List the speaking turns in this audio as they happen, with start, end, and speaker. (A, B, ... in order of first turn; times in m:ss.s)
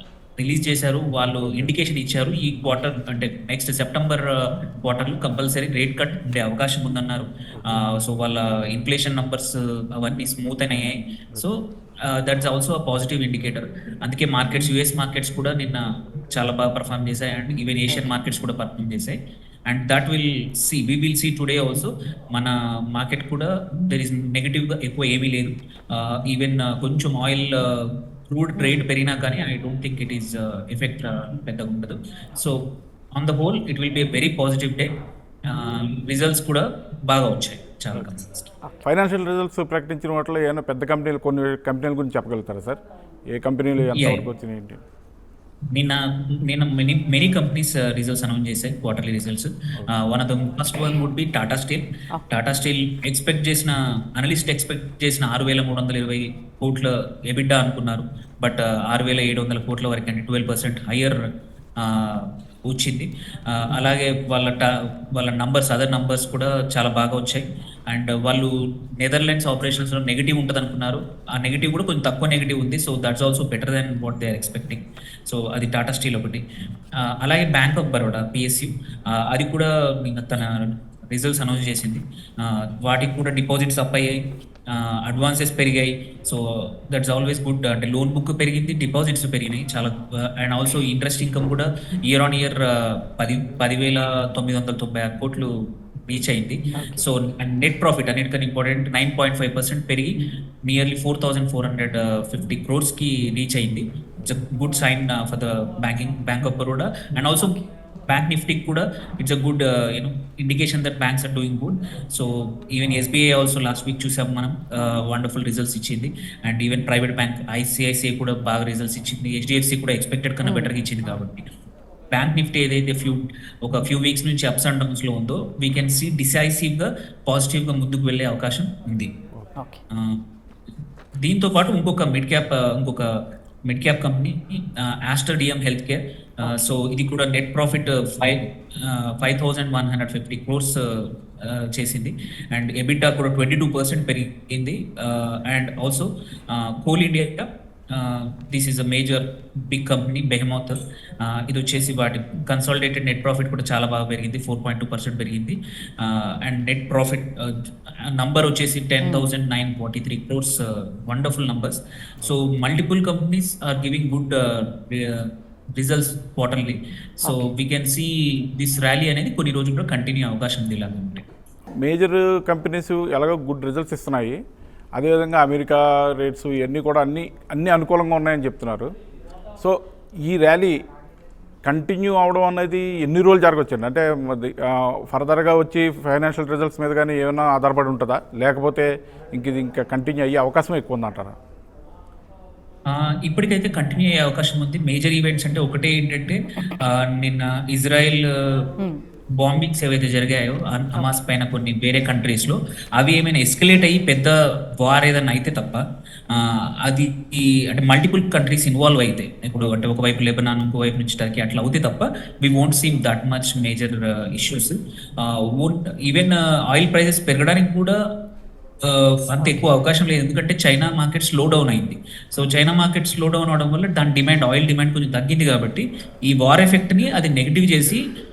0:00.4-0:38.5 A
0:38.8-0:42.8 B
0:43.3-0:44.8 B
0:43.9-0:44.2 A
0:45.7-1:01.2 A
1:01.8-1:16.4 A
1:17.0-2:01.5 A
1:36.8-1:37.0 C
1:47.4-1:47.6 C
1:54.7-1:55.0 C
2:00.4-2:01.2 C
2:02.1-2:09.1 A
2:09.6-2:09.8 C
2:09.9-2:10.2 A
2:11.2-2:51.2 A
2:39.0-2:39.3 C
2:47.2-2:47.5 C
2:51.8-2:54.4 B
2:54.9-2:58.9 B
2:59.6-3:00.8 B
3:01.6-3:11.4 B
3:12.9-3:18.7 A
3:19.4-3:38.0 A
3:38.8-3:48.1 A
3:39.4-3:39.6 C